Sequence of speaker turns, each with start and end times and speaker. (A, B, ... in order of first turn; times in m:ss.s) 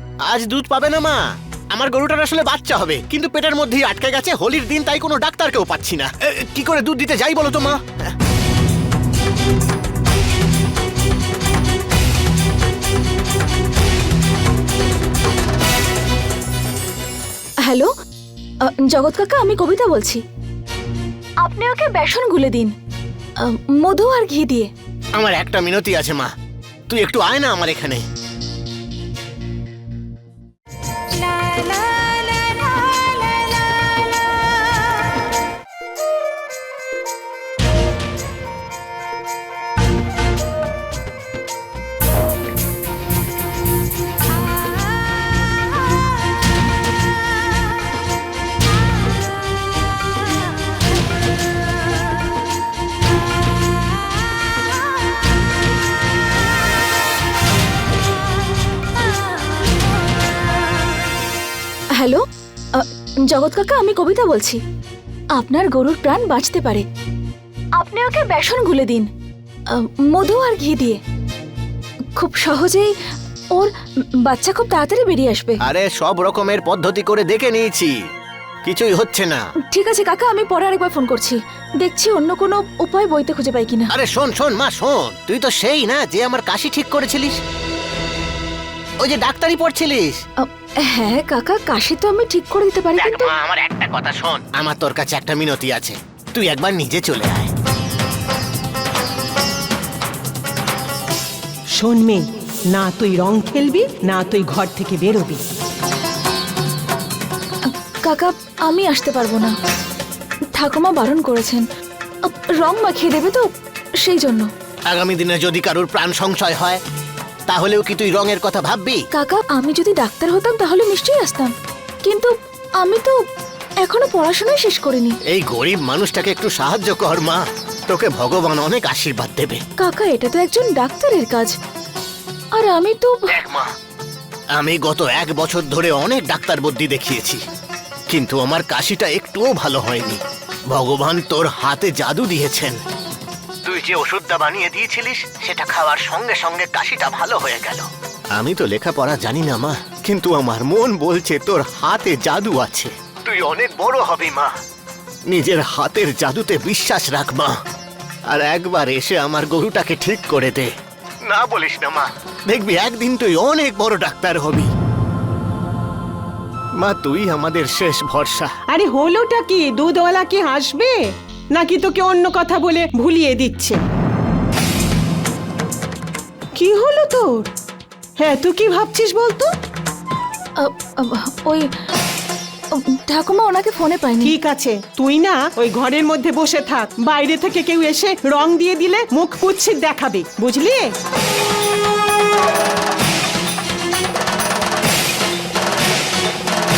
0:00.2-0:07.8 A
0:18.6-0:20.2 B
0:21.4-0:22.7 B
0:23.4-0:24.7 B
0:25.1-0:26.3 A
0:26.9-0:28.0 A
1:02.0-1:02.2 B
1:02.7-1:04.6 B
1:05.3-1:06.8 B
1:07.8-1:09.1 B
1:09.7-1:11.0 B
1:12.2-1:12.9 B
1:14.2-1:15.6 B
1:15.6-1:17.9 A
1:18.6-1:19.5 A
1:19.7-1:23.9 B
1:23.9-1:27.4 A
1:29.0-1:30.2 A
1:30.4-1:33.4 B
1:33.0-1:37.5 A
1:41.8-1:45.4 C
1:47.7-1:49.5 B
1:50.5-1:51.6 B
1:52.2-1:53.5 B
1:54.0-1:54.5 B
1:54.9-1:56.8 A
1:57.5-1:59.0 A
1:59.1-2:01.5 B
2:02.0-2:03.2 B
2:03.8-2:05.2 B
2:05.3-2:09.6 A
2:09.8-2:11.5 B
2:12.5-2:13.4 B
2:13.3-2:13.7 A
2:14.5-2:17.4 A
2:18.1-2:22.8 A
2:23.6-2:34.5 A
2:35.3-2:37.5 A
2:38.3-2:40.7 A
2:41.2-2:44.7 A
2:46.8-2:48.5 A
2:48.7-2:51.0 C
2:51.5-2:53.8 C
2:56.5-2:57.5 C
2:58.2-2:59.5 C
3:00.6-3:01.7 B
3:02.7-3:04.3 B
3:04.2-3:10.9 C